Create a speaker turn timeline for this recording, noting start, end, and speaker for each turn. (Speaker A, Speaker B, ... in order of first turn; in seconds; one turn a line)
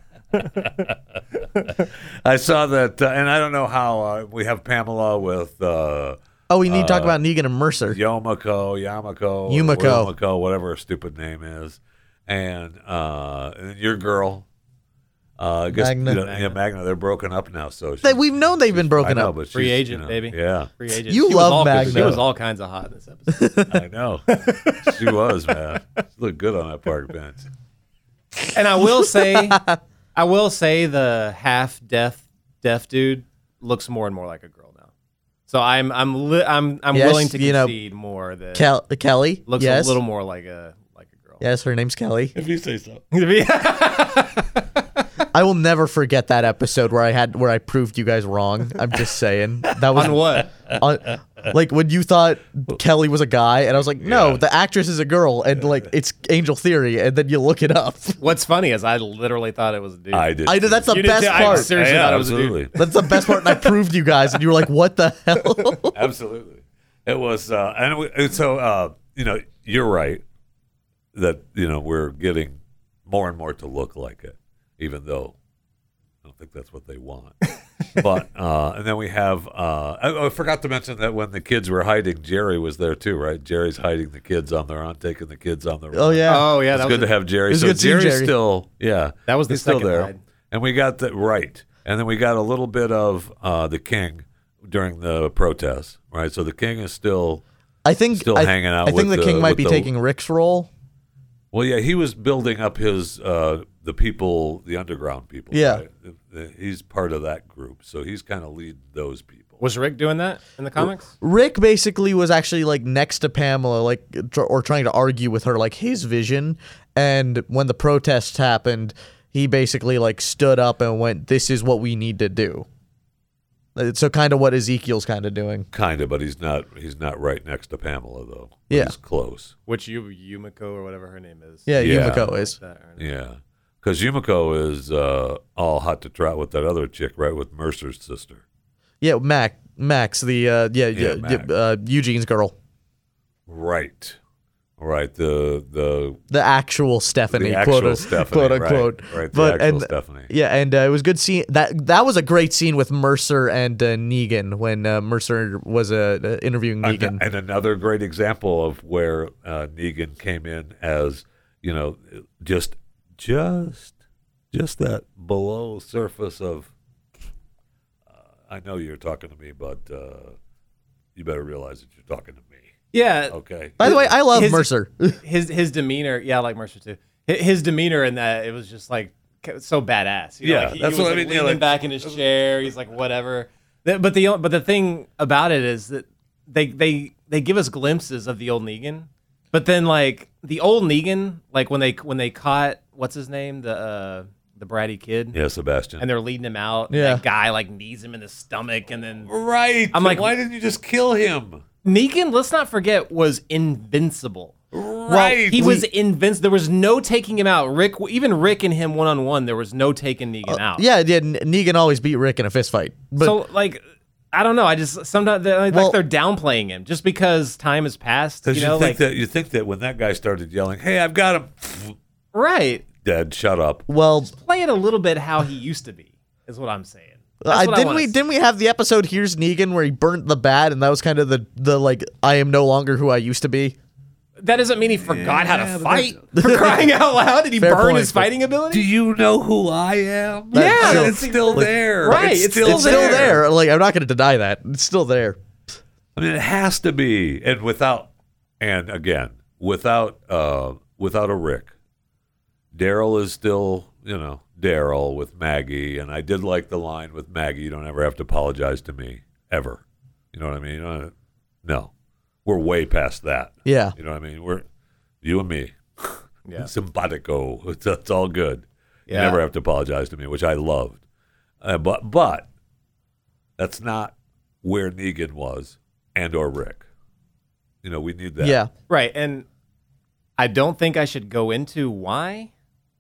Speaker A: 0.4-1.0
Speaker A: 2.2-7.2
Speaker B: 6.5-8.0
Speaker A: 7.9-14.5
Speaker B: 9.5-10.1
Speaker A: 15.4-20.7
Speaker B: 15.7-16.2
Speaker C: 16.2-16.6
Speaker B: 18.0-19.3
Speaker C: 19.5-23.6
Speaker B: 20.9-22.2
Speaker A: 21.7-22.2
Speaker B: 23.3-23.8
Speaker A: 23.7-27.5
Speaker C: 24.3-25.1
Speaker C: 28.5-29.6
Speaker B: 29.1-29.8
Speaker C: 30.1-34.9
Speaker C: 35.5-38.7
Speaker B: 36.9-37.8
Speaker B: 38.5-40.0
Speaker C: 39.5-41.4
Speaker B: 41.4-42.3
Speaker A: 42.3-43.0
Speaker C: 43.1-44.8
Speaker B: 45.3-58.2
Speaker C: 49.9-50.5
Speaker A: 54.0-54.4
Speaker C: 58.2-60.3
Speaker A: 60.1-62.7
Speaker B: 60.5-61.8
Speaker C: 60.9-63.8
Speaker B: 62.8-65.9
Speaker A: 65.9-70.2
Speaker A: 71.1-75.4
Speaker A: 76.2-77.3
Speaker A: 77.9-97.4
Speaker B: 85.9-86.5
Speaker C: 86.3-87.1
Speaker B: 87.5-88.3
Speaker C: 89.3-90.2
Speaker B: 97.8-100.7
Speaker A: 98.1-99.9
Speaker A: 101.5-109.6
Speaker B: 105.5-105.8
Speaker C: 109.6-111.1
Speaker B: 111.2-122.7
Speaker B: 123.8-125.7
Speaker A: 125.7-129.5
Speaker C: 129.7-133.1
Speaker B: 131.7-132.6
Speaker A: 131.8-132.3
Speaker A: 133.0-138.4
Speaker B: 139.0-142.6
Speaker A: 140.9-141.5
Speaker A: 143.5-144.2
Speaker A: 144.8-146.2
Speaker B: 146.3-157.2
Speaker A: 147.3-150.3
Speaker A: 156.8-164.0
Speaker A: 164.5-166.7
Speaker A: 168.5-170.3
Speaker A: 171.2-172.7
Speaker C: 172.9-195.4
Speaker A: 173.3-174.1
Speaker B: 173.8-175.2
Speaker A: 180.4-182.2
Speaker A: 195.3-196.1
Speaker C: 196.0-199.3
Speaker B: 196.9-197.2
Speaker A: 199.3-201.6
Speaker C: 199.9-200.3
Speaker C: 201.8-204.6
Speaker A: 204.7-205.8
Speaker B: 205.1-205.8
Speaker C: 205.5-210.8
Speaker B: 210.5-213.4
Speaker C: 213.2-213.8
Speaker C: 214.3-219.0
Speaker B: 215.7-216.0
Speaker A: 218.5-222.0
Speaker C: 222.3-222.9
Speaker A: 223.0-223.8
Speaker B: 223.9-224.3
Speaker C: 224.3-228.2
Speaker B: 227.4-233.8
Speaker C: 234.4-238.9
Speaker A: 235.0-236.3
Speaker B: 236.4-236.8
Speaker B: 237.6-238.3
Speaker A: 238.7-243.4
Speaker B: 240.5-241.7
Speaker C: 240.5-243.4
Speaker B: 242.6-245.4
Speaker A: 246.2-248.1
Speaker A: 248.6-251.7
Speaker A: 252.7-261.1
Speaker A: 261.6-261.9
Speaker A: 262.4-264.6
Speaker B: 263.6-263.9
Speaker A: 265.2-271.0
Speaker C: 266.5-266.7
Speaker C: 269.1-269.4
Speaker A: 271.6-272.5
Speaker A: 273.6-276.9
Speaker A: 277.8-278.6
Speaker B: 278.4-278.7
Speaker C: 278.9-279.5
Speaker C: 280.4-282.5